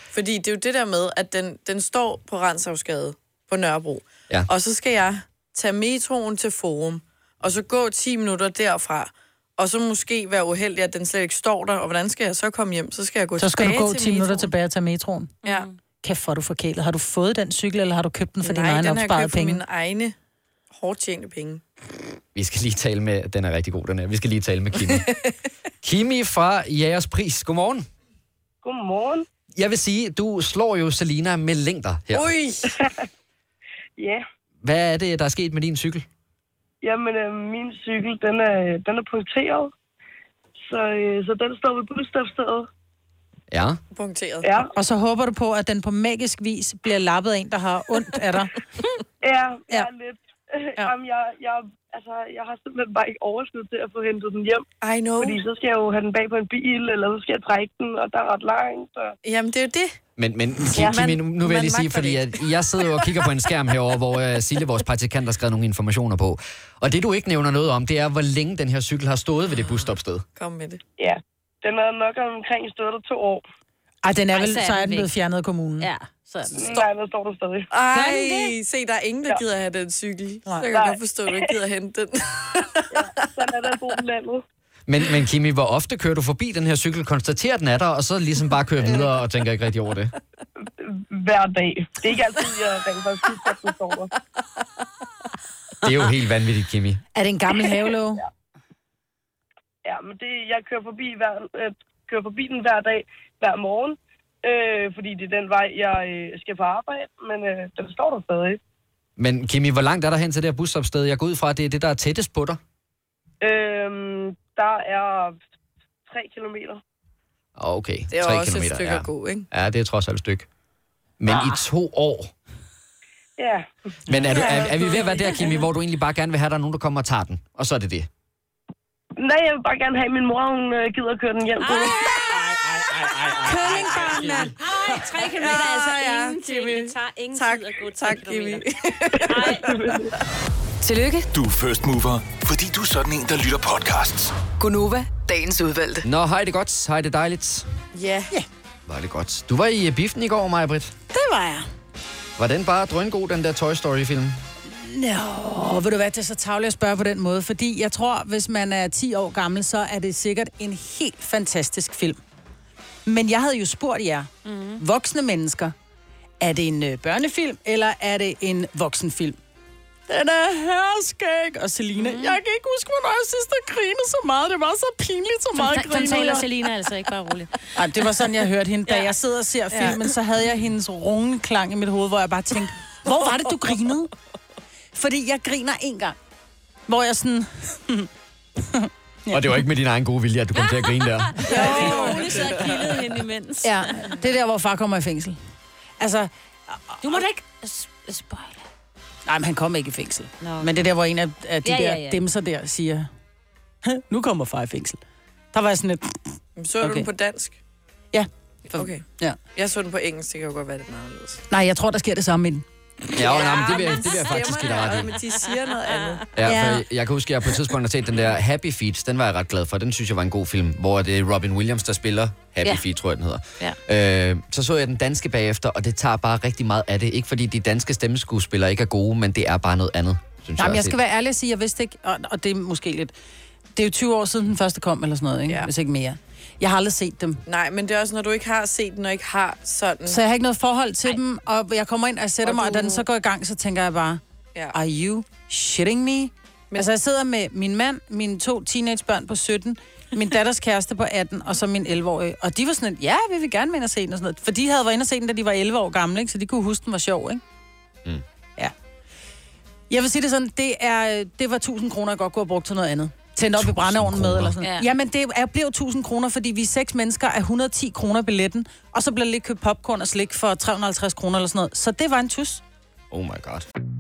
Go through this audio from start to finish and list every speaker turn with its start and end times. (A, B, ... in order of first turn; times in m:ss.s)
0:00.1-0:14.5 A
0:13.4-0:15.4 B
0:15.4-0:15.7 C
0:16.0-0:19.6 B
0:18.4-0:20.2 A
0:20.7-0:21.6 A
0:22.4-0:25.1 D
0:25.8-0:27.9 D
0:28.6-0:29.2 E
0:29.6-0:32.3 D
0:32.1-0:32.7 A
0:32.7-0:33.0 E
0:34.0-0:34.2 E
0:34.6-0:36.0 D
0:36.8-0:39.7 E
0:40.7-0:42.7 E
0:43.5-0:43.8 D
0:43.9-0:44.6 A
0:44.4-0:44.7 E
0:44.8-0:48.5 B
0:49.2-0:54.6 E
0:54.8-0:55.4 A
0:55.2-0:59.1 E
0:59.2-1:00.0 A
1:00.2-1:10.2 D
1:00.6-1:02.3 A
1:10.4-1:10.8 A
1:11.0-1:13.4 E
1:14.0-1:15.9 B
1:14.3-1:15.1 C
1:15.8-1:16.8 C
1:16.6-1:17.7 E
1:17.7-1:23.7 A
1:17.9-1:18.6 C
1:20.7-1:21.5 E
1:22.9-1:24.4 E
1:24.9-1:30.1 D
1:30.8-1:34.1 E
1:35.8-1:37.0 D
1:37.2-1:38.2 B
1:39.8-1:48.6 E
1:49.2-1:52.6 D
1:53.4-1:55.4 E
1:56.1-1:56.8 E
1:57.6-2:00.5 D
1:58.1-1:59.5 A
2:01.2-2:02.3 D
2:03.4-2:03.7 E
2:04.1-2:08.1 D
2:04.2-2:05.4 E
2:09.2-2:12.4 E
2:11.6-2:18.6 C
2:12.5-2:14.6 B
2:13.5-2:14.3 A
2:14.8-2:19.9 A
2:19.3-2:19.7 C
2:19.3-2:20.2 E
2:20.8-2:21.3 F
2:21.3-2:24.3 G
2:24.6-2:26.1 F
2:26.0-2:27.7 D
2:27.9-2:28.3 A
2:28.9-2:30.9 D
2:31.1-2:31.7 B
2:32.4-2:34.4 D
2:34.7-2:42.2 B
2:43.1-2:45.7 B
2:44.4-2:44.8 C
2:46.4-2:49.4 B
2:50.1-2:56.5 B
2:52.0-2:52.4 C
2:55.5-2:57.5 C
2:57.8-3:04.1 B
2:58.9-2:59.1 C
2:59.7-3:00.0 A
3:04.9-3:06.2 B
3:06.9-3:08.1 B
3:08.6-3:09.6 B
3:09.3-3:11.4 D
3:10.6-3:13.9 C
3:11.5-3:12.5 B
3:11.5-3:12.8 A
3:13.6-3:15.4 B
3:16.0-3:17.2 B
3:17.0-3:18.6 C
3:19.3-3:23.1 B
3:20.4-3:20.7 C
3:21.6-3:22.2 C
3:23.8-3:25.0 B
3:25.5-3:26.2 B
3:26.6-3:27.6 A
3:26.8-3:27.1 B
3:28.1-3:29.4 B
3:28.8-3:31.4 A
3:31.5-3:33.2 B
3:33.1-3:35.2 D
3:33.2-3:36.3 A
3:35.9-3:36.2 C
3:36.4-3:51.0 D
3:36.4-3:36.8 B
3:50.6-3:53.1 B
3:53.8-3:57.4 B
3:57.5-4:00.2 A
4:00.1-4:04.2 B
4:02.4-4:03.1 A
4:04.7-4:17.4 B
4:19.9-4:32.6 B
4:23.6-4:24.5 D
4:24.6-4:24.9 C
4:33.1-4:33.7 D